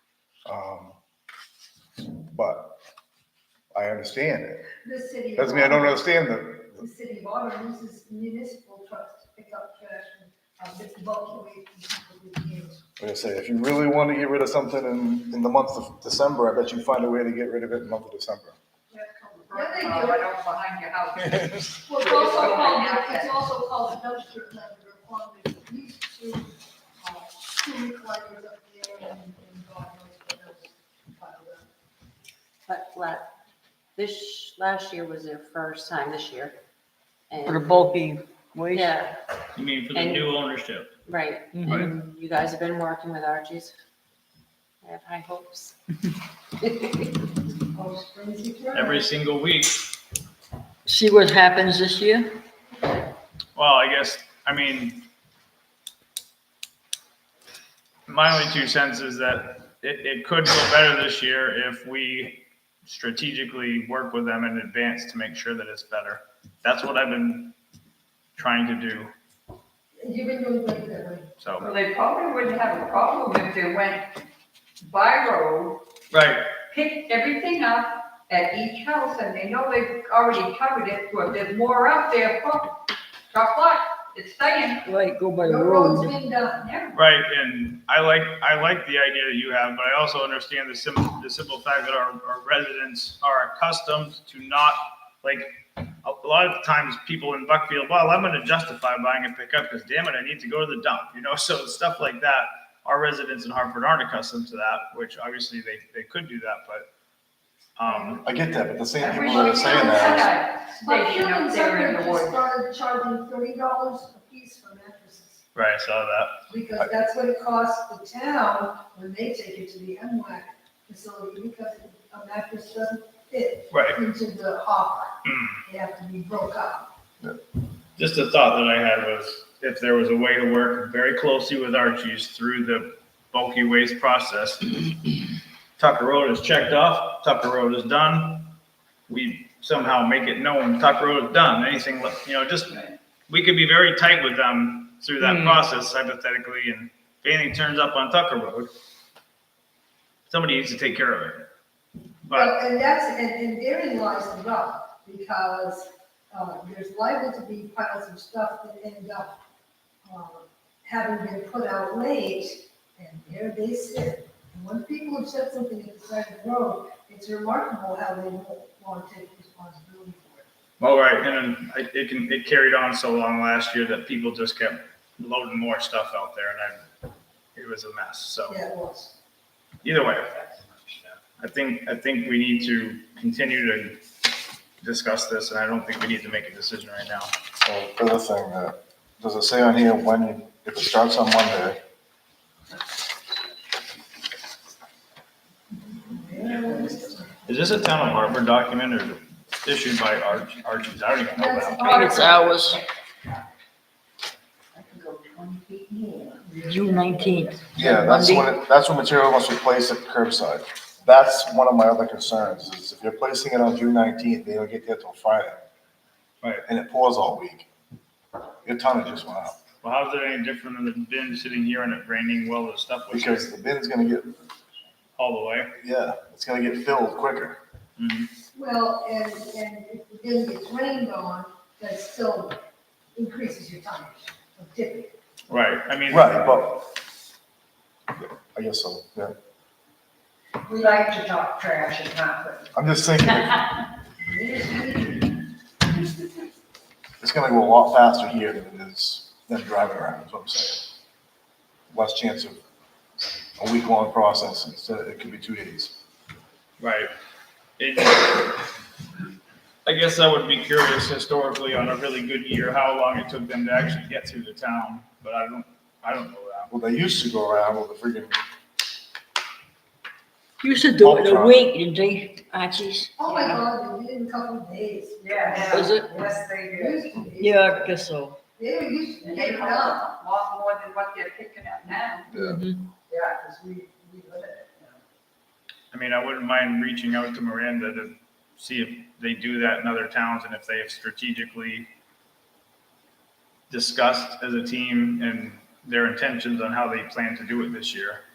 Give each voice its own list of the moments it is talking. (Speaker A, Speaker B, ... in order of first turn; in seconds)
Speaker A: 0.5-1.0, 2.1-2.8, 3.7-4.7, 5.4-6.8, 13.0-18.6, 21.2-21.7, 108.2-110.3, 187.6-191.8, 207.8-215.6, 216.7-217.7, 218.6-219.6, 223.1-224.4, 225.8-227.6, 236.1-236.8, 238.5-239.3, 242.7-243.7, 247.2-250.9, 251.9-252.6, 253.6-255.9, 266.7-268.4, 271.0-271.6, 282.3-282.6
Speaker B: 4.8-6.1, 6.8-12.8, 18.9-20.2, 21.9-31.7, 47.7-49.1, 70.0-71.3, 85.4-86.7, 107.8-108.3, 109.5-115.4, 116.5-126.9, 152.3-159.3, 160.1-170.5, 178.5-179.1, 195.9-197.5, 201.3-203.4, 204.8-205.1, 205.6-207.3, 228.5-232.6, 233.2-235.1, 240.7-242.7, 244.2-245.4, 273.2-277.9, 278.6-280.0, 283.1-285.0
Speaker C: 19.2-23.4, 71.6-74.0, 74.8-75.8, 76.7-82.8, 83.3-84.9, 86.6-87.0, 109.0-112.5, 275.2-277.1, 279.2-282.3
Speaker D: 32.7-33.3, 34.0-36.6, 37.3-37.9, 38.7-39.2, 39.9-40.5, 41.1-43.7, 44.8-45.8, 46.6-47.1
Speaker E: 37.5-39.0, 41.5-41.9, 50.9-52.4, 84.8-86.1, 145.2-145.6, 201.8-202.8, 206.5-208.5, 270.6-273.6, 275.7-276.1, 277.4-278.4, 282.4-282.9
Speaker F: 39.5-40.9, 48.7-49.9, 53.6-55.1, 58.1-67.5, 68.4-69.1, 71.4-71.7, 76.1-76.5, 86.9-106.9, 107.8-108.2, 115.5-116.3, 123.7-124.0, 125.2-125.6, 128.0-134.8, 135.8-138.6, 139.1-148.7, 150.3-151.5, 152.3-152.6, 170.8-176.9, 177.6-178.6, 179.8-180.4, 181.4-184.0, 184.8-187.3, 196.5-196.9, 197.5-202.0, 219.8-223.5, 225.2-225.7, 228.0-228.3, 235.5-236.4, 256.8-257.1, 257.8-258.6, 259.9-266.7, 285.9-291.9, 293.7-298.2